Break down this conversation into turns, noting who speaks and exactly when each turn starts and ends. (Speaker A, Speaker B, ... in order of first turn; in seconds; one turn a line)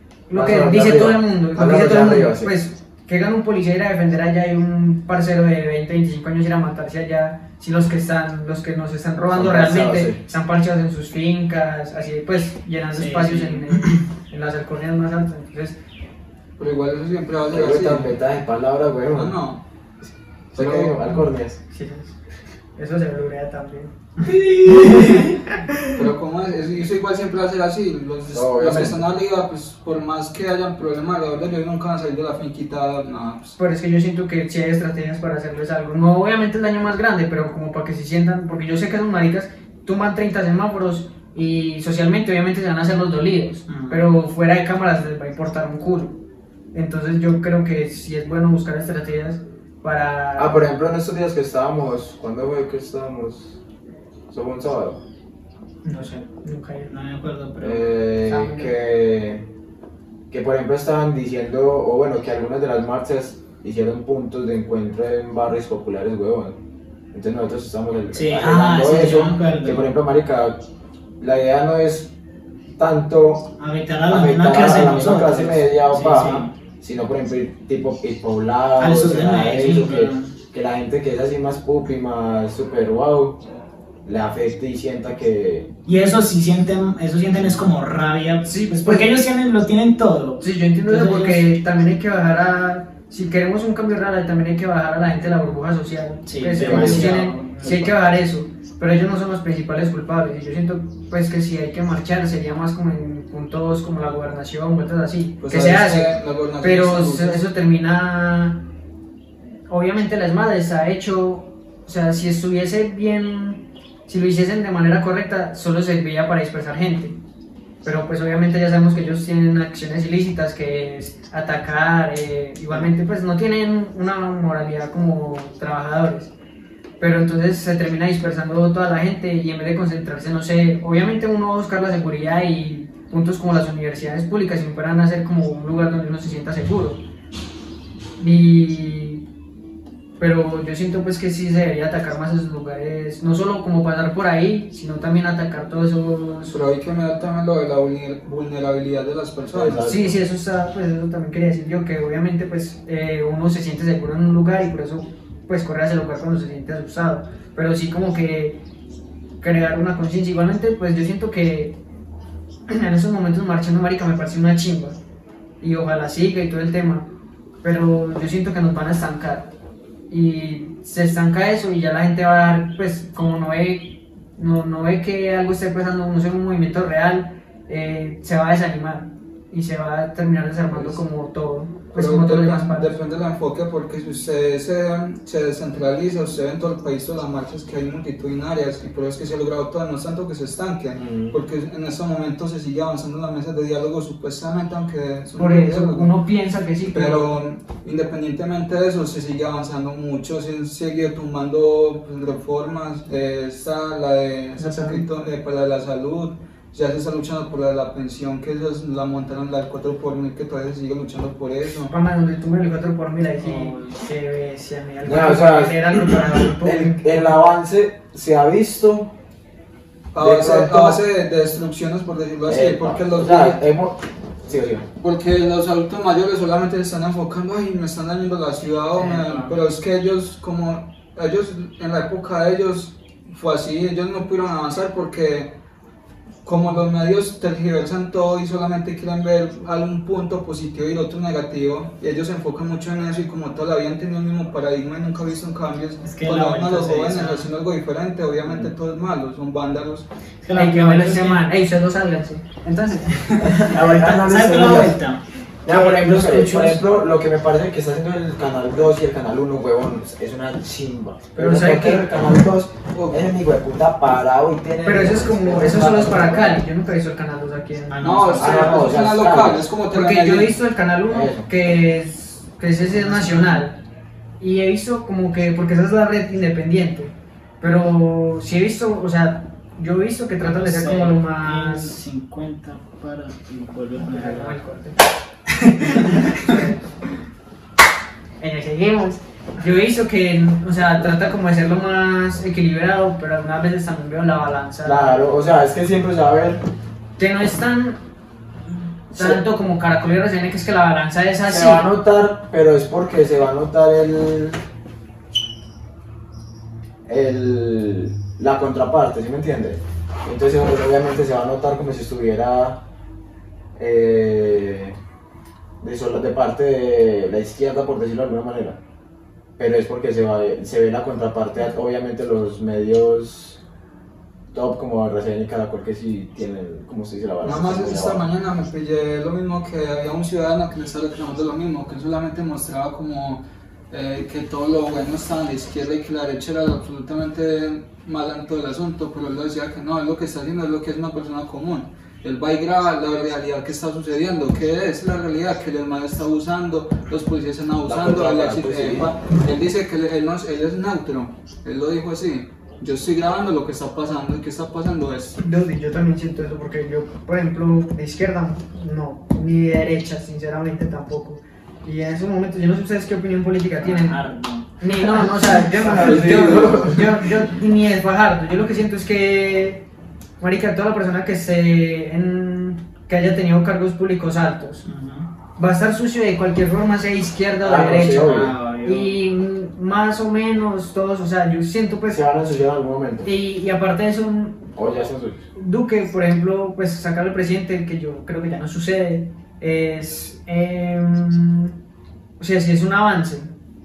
Speaker A: 0.3-15.8
Speaker B: 0.3-2.5
Speaker B: 9.3-10.2
Speaker C: 12.9-14.0
Speaker D: 16.6-18.1
Speaker B: 17.5-19.4
Speaker D: 19.1-19.6
Speaker B: 20.5-21.6
Speaker D: 20.6-20.8
Speaker A: 20.8-22.2
Speaker A: 22.8-25.4
Speaker C: 24.3-25.3
Speaker D: 25.9-33.6
Speaker B: 28.3-29.0
Speaker A: 33.6-46.2
Speaker C: 43.7-44.0
Speaker A: 46.7-50.6
Speaker B: 50.4-53.6
Speaker B: 54.3-55.0
Speaker A: 55.8-56.9
Speaker C: 56.9-57.9
Speaker B: 57.6-59.5
Speaker A: 58.2-58.7
Speaker B: 60.3-66.6
Speaker B: 67.1-70.6
Speaker C: 68.1-69.9
Speaker B: 71.2-72.1
Speaker B: 72.8-73.5
Speaker C: 73.6-76.5
Speaker B: 74.1-83.4
Speaker C: 78.8-80.3
Speaker B: 84.0-85.7
Speaker C: 85.9-91.5
Speaker B: 87.4-87.6
Speaker A: 88.5-89.2
Speaker A: 90.4-108.6
Speaker C: 96.2-97.9
Speaker B: 96.6-97.2
Speaker D: 105.4-107.5
Speaker A: 109.7-117.2
Speaker A: 117.8-126.3
Speaker A: 127.0-137.0
Speaker A: 138.2-139.2
Speaker A: 140.2-146.5
Speaker D: 146.5-149.9
Speaker B: 149.5-150.2
Speaker A: 149.8-158.6
Speaker A: 159.4-161.8
Speaker A: 162.7-165.0
Speaker A: 165.6-167.1
Speaker A: 167.6-169.5
Speaker A: 170.1-182.9
Speaker D: 180.7-181.0
Speaker D: 181.9-196.1
Speaker B: 190.9-191.4
Speaker A: 195.4-197.3
Speaker D: 196.9-211.9
Speaker A: 204.6-205.0
Speaker A: 211.9-217.2
Speaker C: 213.4-214.0
Speaker B: 215.0-219.1
Speaker D: 220.1-223.6
Speaker B: 220.2-221.0
Speaker B: 222.5-224.9
Speaker D: 225.0-235.5
Speaker C: 229.0-229.5
Speaker D: 236.4-250.1
Speaker C: 246.0-247.5
Speaker C: 250.4-251.4
Speaker A: 250.5-253.8
Speaker B: 253.4-255.0
Speaker C: 253.8-255.2
Speaker B: 255.7-266.6
Speaker A: 255.7-256.6
Speaker C: 255.9-256.8
Speaker A: 261.4-262.1
Speaker D: 262.9-263.2
Speaker A: 264.8-268.1
Speaker C: 267.9-269.0
Speaker D: 268.0-270.6
Speaker B: 268.4-269.7
Speaker A: 269.9-273.8
Speaker B: 271.1-271.5
Speaker C: 272.9-273.7
Speaker A: 274.4-281.9
Speaker C: 280.4-284.6
Speaker A: 284.0-285.0
Speaker C: 285.5-286.5
Speaker A: 285.9-286.9
Speaker A: 288.4-295.2
Speaker B: 294.8-296.6
Speaker A: 297.2-298.0
Speaker A: 299.1-301.9
Speaker B: 299.1-299.4
Speaker B: 301.4-304.6
Speaker B: 307.1-312.8
Speaker B: 313.8-315.0
Speaker B: 315.8-318.8
Speaker B: 319.6-323.6
Speaker B: 324.5-328.3
Speaker D: 327.4-355.4
Speaker B: 347.9-349.1
Speaker A: 355.4-364.2
Speaker C: 363.8-364.7
Speaker A: 364.8-369.9
Speaker B: 365.2-367.4
Speaker D: 365.9-366.8
Speaker A: 370.4-374.8
Speaker C: 374.8-375.3
Speaker A: 375.6-382.2
Speaker B: 377.6-378.6
Speaker C: 378.0-379.1
Speaker B: 382.1-383.3
Speaker A: 383.2-384.7
Speaker B: 384.8-385.5
Speaker A: 385.6-391.7
Speaker A: 392.4-393.5